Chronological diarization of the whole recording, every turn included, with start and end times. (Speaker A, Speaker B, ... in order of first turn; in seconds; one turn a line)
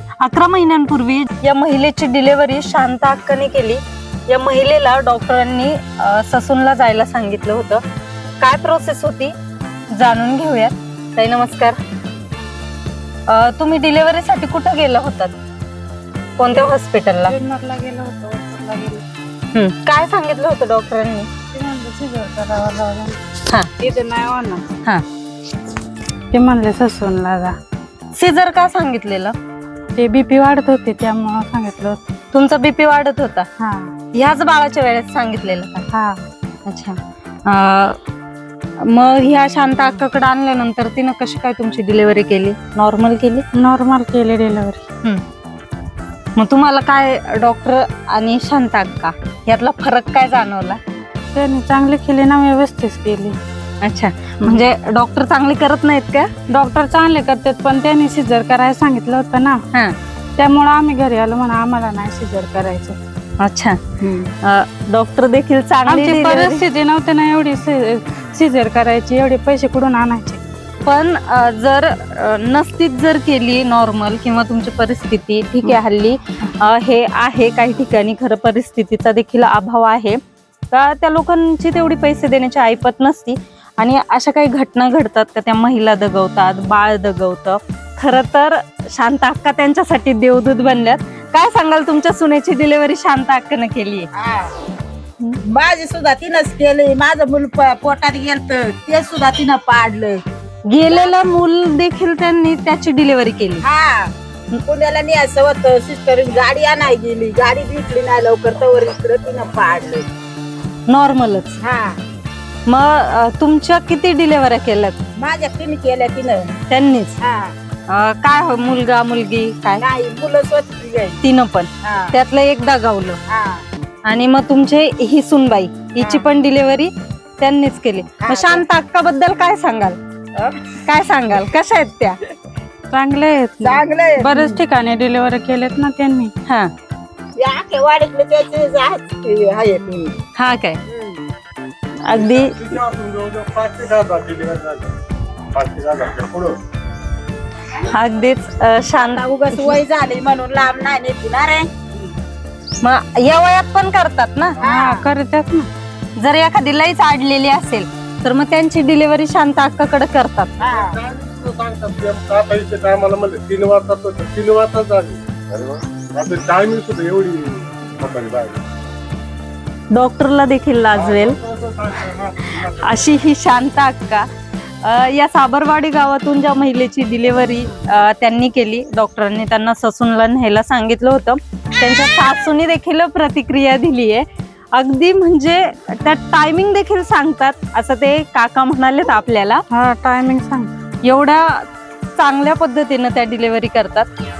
Speaker A: 0.2-7.8
Speaker A: 8.4-9.3
Speaker A: 9.9-11.8
Speaker A: 13.3-15.3
Speaker A: 16.4-17.3
Speaker B: 17.2-19.0
Speaker A: 19.5-21.3
Speaker B: 21.5-23.2
Speaker B: 23.8-24.6
Speaker B: 26.3-27.6
Speaker A: 28.1-29.3
Speaker B: 29.9-32.0
Speaker A: 32.3-33.5
Speaker B: 33.6-33.9
Speaker A: 34.1-35.8
Speaker B: 35.9-36.3
Speaker A: 36.7-38.0
Speaker A: 38.8-43.4
Speaker B: 43.5-44.9
Speaker A: 46.4-50.8
Speaker B: 51.3-53.4
Speaker A: 53.8-56.3
Speaker B: 56.5-59.6
Speaker B: 60.4-63.0
Speaker A: 63.4-63.8
Speaker B: 64.0-64.3
Speaker A: 64.4-66.6
Speaker B: 65.9-70.4
Speaker A: 70.8-80.2
Speaker A: 80.7-94.1
Speaker C: 94.1-94.5
Speaker C: 95.4-100.2
Speaker A: 100.7-103.6
Speaker C: 103.6-104.1
Speaker C: 104.7-110.0
Speaker A: 110.9-111.6
Speaker C: 111.6-112.0
Speaker A: 112.7-115.0
Speaker C: 115.2-116.5
Speaker A: 116.7-117.2
Speaker C: 117.2-117.5
Speaker A: 117.9-119.8
Speaker C: 119.8-121.2
Speaker A: 121.2-123.2
Speaker C: 121.8-122.1
Speaker C: 123.3-123.6
Speaker A: 124.0-130.0
Speaker C: 126.0-126.2
Speaker C: 128.2-128.6
Speaker C: 130.3-130.7
Speaker A: 130.8-132.2
Speaker B: 132.9-136.3
Speaker C: 133.6-134.6
Speaker A: 136.4-136.7
Speaker C: 137.3-140.2
Speaker A: 140.4-140.8
Speaker C: 140.9-141.2
Speaker A: 142.0-142.5
Speaker D: 142.1-144.9
Speaker D: 145.5-146.6
Speaker A: 147.7-149.2
Speaker C: 148.9-152.1
Speaker A: 152.8-154.6
Speaker C: 154.6-155.1
Speaker B: 154.6-155.7
Speaker A: 156.2-160.5
Speaker C: 160.6-161.0
Speaker D: 160.6-168.6
Speaker A: 169.9-171.4
Speaker D: 170.9-173.1
Speaker A: 172.6-174.3
Speaker A: 174.8-189.6
Speaker B: 189.7-190.7
Speaker A: 191.0-191.7
Speaker A: 192.2-194.1